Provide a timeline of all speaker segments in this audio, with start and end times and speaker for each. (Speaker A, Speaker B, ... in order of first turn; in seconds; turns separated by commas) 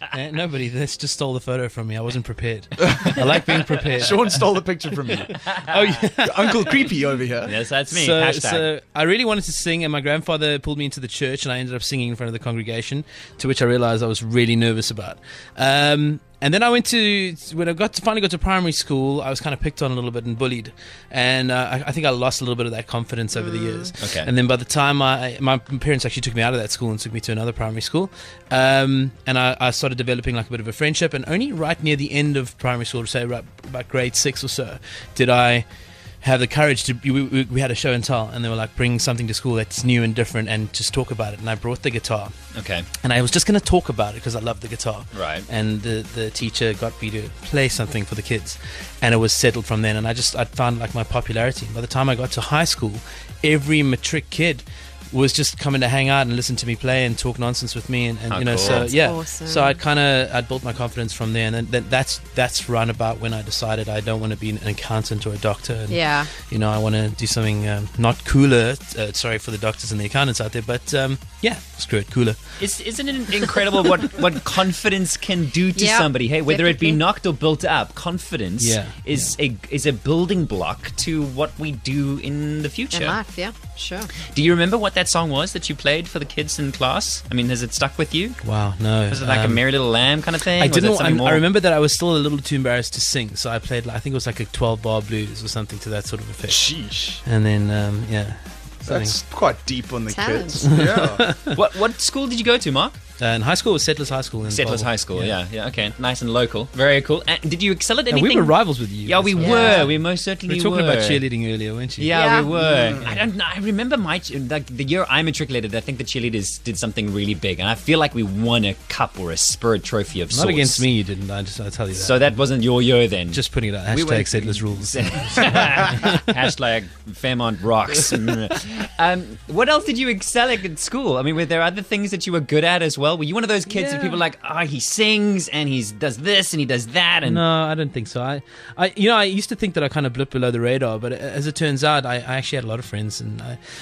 Speaker A: 0.1-4.4, Speaker B: 2.8-3.1, Speaker B: 3.9-5.3, Speaker A: 5.1-6.9, Speaker C: 5.5-5.8, Speaker B: 6.2-7.6, Speaker C: 7.4-8.7, Speaker A: 7.9-35.6, Speaker C: 24.0-24.3, Speaker A: 36.2-42.3, Speaker C: 42.5-42.9, Speaker A: 43.0-72.4, Speaker C: 45.1-45.5, Speaker C: 58.3-58.9, Speaker D: 58.6-59.8, Speaker D: 65.9-66.3, Speaker C: 72.6-83.2, Speaker D: 75.7-77.0, Speaker A: 78.6-79.3, Speaker D: 82.9-84.1, Speaker C: 84.2-88.4, Speaker A: 88.4-89.6, Speaker C: 89.1-91.5, Speaker A: 90.6-96.7, Speaker B: 96.5-97.2, Speaker A: 97.2-99.2, Speaker B: 98.8-101.2, Speaker D: 100.1-100.7, Speaker A: 100.6-101.6, Speaker C: 101.5-103.0, Speaker A: 103.2-105.3, Speaker C: 104.5-111.2, Speaker A: 108.1-112.2, Speaker D: 109.4-109.9, Speaker C: 112.0-120.9, Speaker D: 112.1-112.5, Speaker B: 112.5-113.2, Speaker A: 120.3-122.2, Speaker C: 122.0-137.4, Speaker A: 123.3-126.0, Speaker A: 133.8-134.2, Speaker A: 137.2-143.6